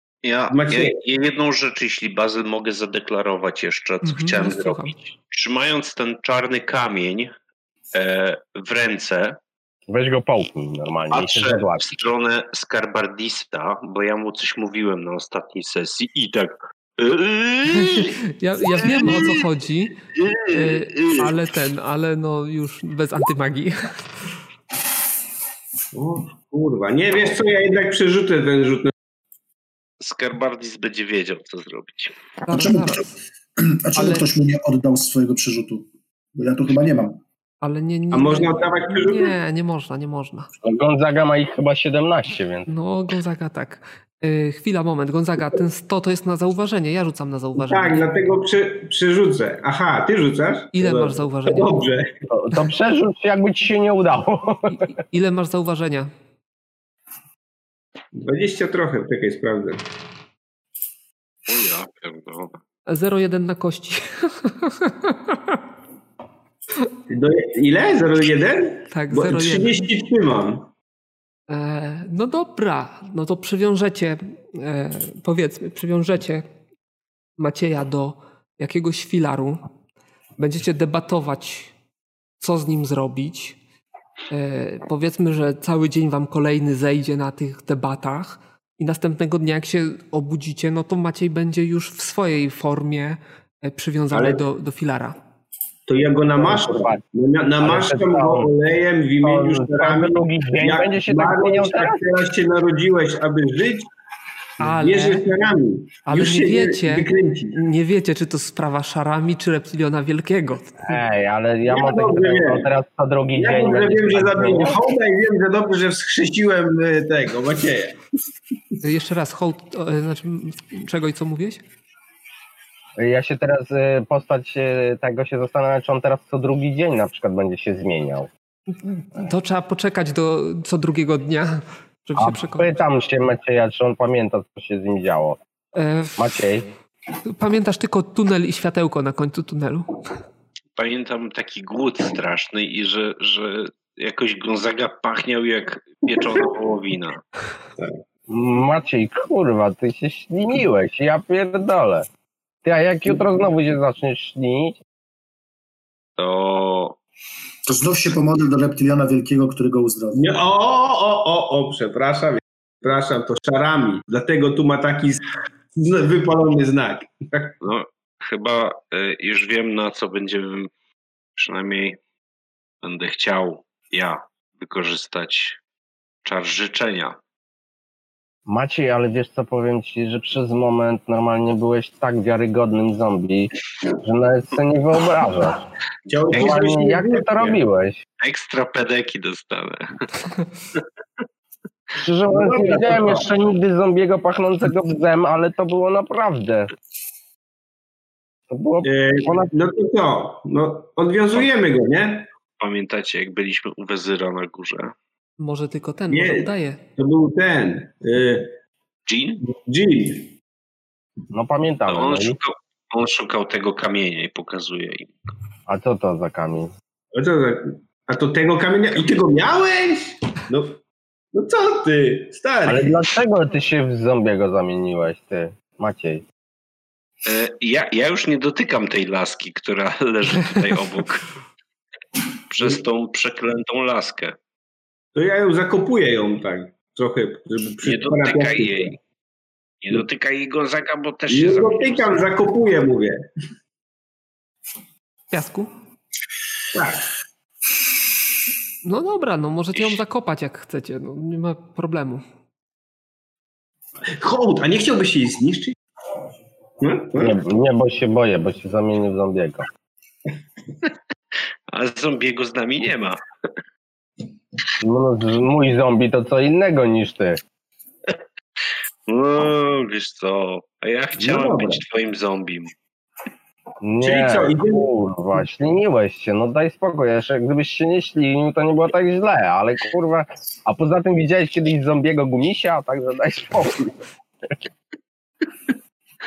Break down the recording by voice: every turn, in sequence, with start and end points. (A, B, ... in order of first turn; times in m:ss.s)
0:00.2-0:07.3 A
0:00.5-0:01.0 B
0:04.0-0:05.0 C
0:07.9-0:09.4 A
0:09.9-0:11.9 D
0:11.1-0:18.1 A
0:17.7-0:24.0 C
0:18.8-0:19.4 A
0:20.2-0:21.2 A
0:25.9-0:28.9 B
0:30.0-0:32.2 A
0:32.5-0:33.0 C
0:32.5-0:33.0 E
0:33.6-0:37.2 E
0:34.0-0:34.3 C
0:37.6-0:40.5 C
0:38.1-0:39.3 B
0:40.6-0:42.7 D
0:42.7-0:48.1 C
0:47.6-0:52.2 B
0:50.7-0:51.8 C
0:52.3-0:54.9 D
0:54.7-0:56.1 C
0:58.1-0:59.8 B
1:01.5-1:02.6 A
1:02.9-1:05.6 C
1:07.1-1:10.7 B
1:08.9-1:09.8 C
1:11.5-1:16.4 C
1:17.4-1:19.6 C
1:20.4-1:21.7 C
1:22.4-1:23.6 C
1:24.3-1:35.2 C
1:34.1-1:34.4 B
1:35.9-1:43.9 B
1:36.4-1:37.0 D
1:37.6-1:38.5 D
1:39.2-1:42.0 D
1:44.6-1:45.2 C
1:44.6-1:47.6 B
1:46.1-1:51.0 C
1:50.8-1:54.8 D
1:51.7-1:52.7 B
1:53.4-1:58.0 B
1:58.8-2:01.6 C
2:03.0-2:08.3 D
2:08.8-2:12.8 C
2:12.2-2:15.4 D
2:15.8-2:16.3 C
2:16.2-2:16.7 D
2:17.2-2:20.0 C
2:20.8-2:27.2 A
2:28.3-2:32.1 D
2:32.6-2:34.8 D
2:36.2-2:37.0 A
2:37.7-2:40.3 E
2:40.2-2:47.6 B
2:47.6-2:50.7 A
2:51.4-2:52.0 A
2:52.8-2:55.6 A
2:56.2-2:57.2 A
2:58.5-3:03.5 D
3:04.0-3:05.7 D
3:06.1-3:07.6 B
3:06.3-3:08.0 D
3:08.2-3:10.1 A
3:12.0-3:16.7 D
3:12.3-3:13.3 B
3:18.5-3:19.5 D
3:18.8-3:22.3 B
3:22.6-3:25.0 A
3:25.4-3:26.8 C
3:26.1-3:28.6 B
3:29.1-3:29.4 A
3:29.4-3:30.3 B
3:31.3-3:32.4 D
3:31.9-3:35.2 A
3:35.7-3:36.7 D
3:37.1-3:40.8 B
3:41.3-3:42.9 B
3:42.7-3:46.2 D
3:47.2-3:51.3 A
3:52.5-3:54.4 A
3:55.2-3:59.0 B
3:57.8-3:59.0 A
3:59.8-4:02.3 A
4:01.3-4:03.2 B
4:05.3-4:05.7 C
4:06.7-4:07.0 B
4:08.8-4:12.2 C
4:14.2-4:15.8 B
4:16.8-4:17.4 B
4:17.2-4:19.7 D
4:21.7-4:23.2 A
4:24.8-4:27.4 D
4:29.1-4:32.7 A
4:31.2-4:31.8 B
4:33.8-4:44.0 D
4:34.0-4:34.9 B